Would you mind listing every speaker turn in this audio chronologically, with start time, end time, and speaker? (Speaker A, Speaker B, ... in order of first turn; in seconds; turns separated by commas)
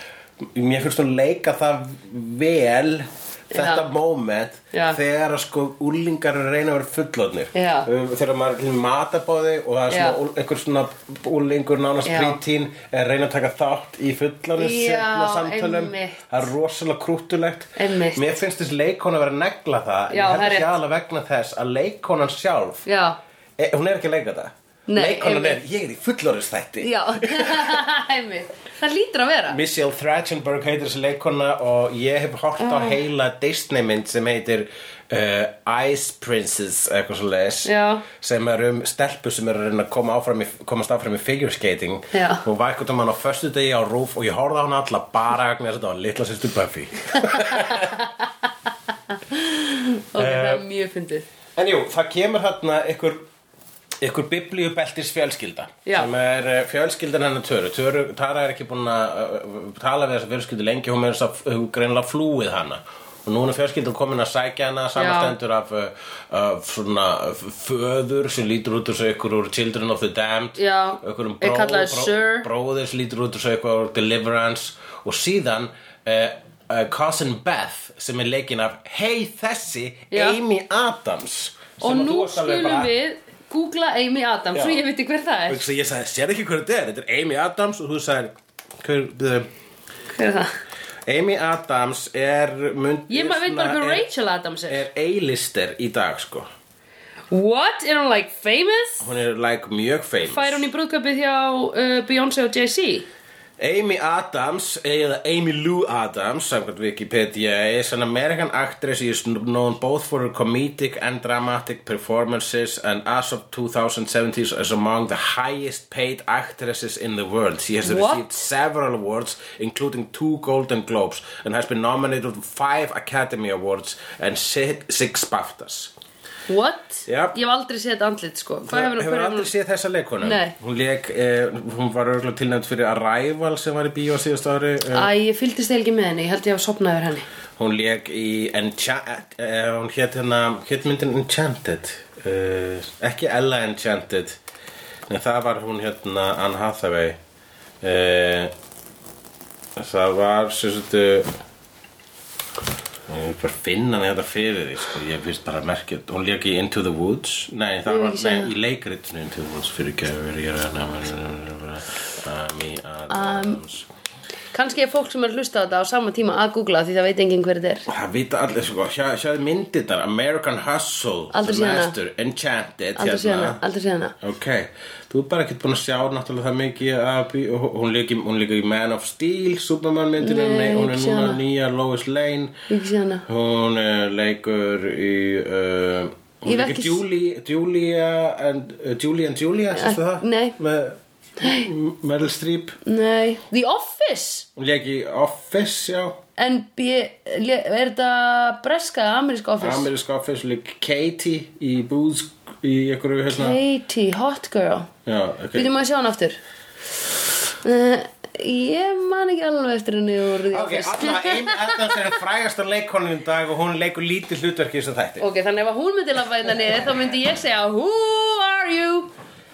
Speaker A: 0.4-22.8, Speaker B: 3.5-3.8, Speaker B: 4.7-5.0, Speaker B: 7.5-7.9, Speaker B: 9.9-10.2, Speaker B: 12.0-12.4, Speaker B: 14.6-16.3, Speaker B: 17.8-18.4, Speaker B: 20.1-20.7, Speaker B: 22.9-23.2, Speaker A: 23.6-27.8, Speaker B: 24.9-25.6, Speaker B: 26.8-29.6, Speaker A: 29.5-48.0, Speaker B: 32.6-33.0, Speaker B: 37.6-38.0, Speaker B: 42.1-42.4, Speaker B: 47.2-48.1, Speaker B: 49.1-51.2, Speaker A: 50.1-50.6, Speaker A: 51.5-53.2, Speaker A: 54.0-82.9, Speaker B: 64.9-65.3, Speaker B: 70.6-72.5, Speaker B: 80.1-80.4, Speaker B: 81.8-85.7, Speaker A: 84.5-84.8, Speaker A: 85.5-89.5, Speaker B: 90.1-90.5, Speaker A: 91.0-94.1, Speaker B: 93.1-94.8, Speaker A: 94.7-96.5, Speaker B: 97.3-99.0, Speaker A: 99.0-100.7, Speaker B: 100.3-103.1, Speaker A: 103.6-125.9, Speaker B: 117.8-118.3, Speaker B: 126.5-129.5, Speaker A: 127.0-127.3, Speaker A: 128.6-135.1, Speaker B: 130.2-130.5, Speaker B: 134.9-137.2, Speaker A: 137.6-144.4, Speaker A: 145.1-147.2, Speaker A: 147.8-148.5, Speaker A: 149.8-151.3, Speaker A: 153.1-163.9, Speaker B: 157.9-158.5, Speaker B: 163.1-163.6, Speaker B: 164.5-167.8, Speaker A: 167.9-173.6, Speaker B: 171.3-171.9, Speaker B: 173.0-174.1, Speaker A: 174.2-182.5, Speaker B: 180.2-181.4, Speaker B: 182.7-183.2, Speaker A: 183.2-192.8, Speaker B: 186.4-187.0, Speaker B: 189.7-190.6, Speaker B: 191.4-191.7, Speaker B: 192.8-194.5, Speaker A: 194.6-196.2, Speaker B: 196.4-199.9, Speaker A: 199.6-203.6, Speaker B: 203.3-204.9, Speaker A: 205.1-205.7, Speaker B: 205.5-206.4, Speaker B: 207.6-211.9, Speaker A: 210.5-215.3, Speaker B: 215.2-219.1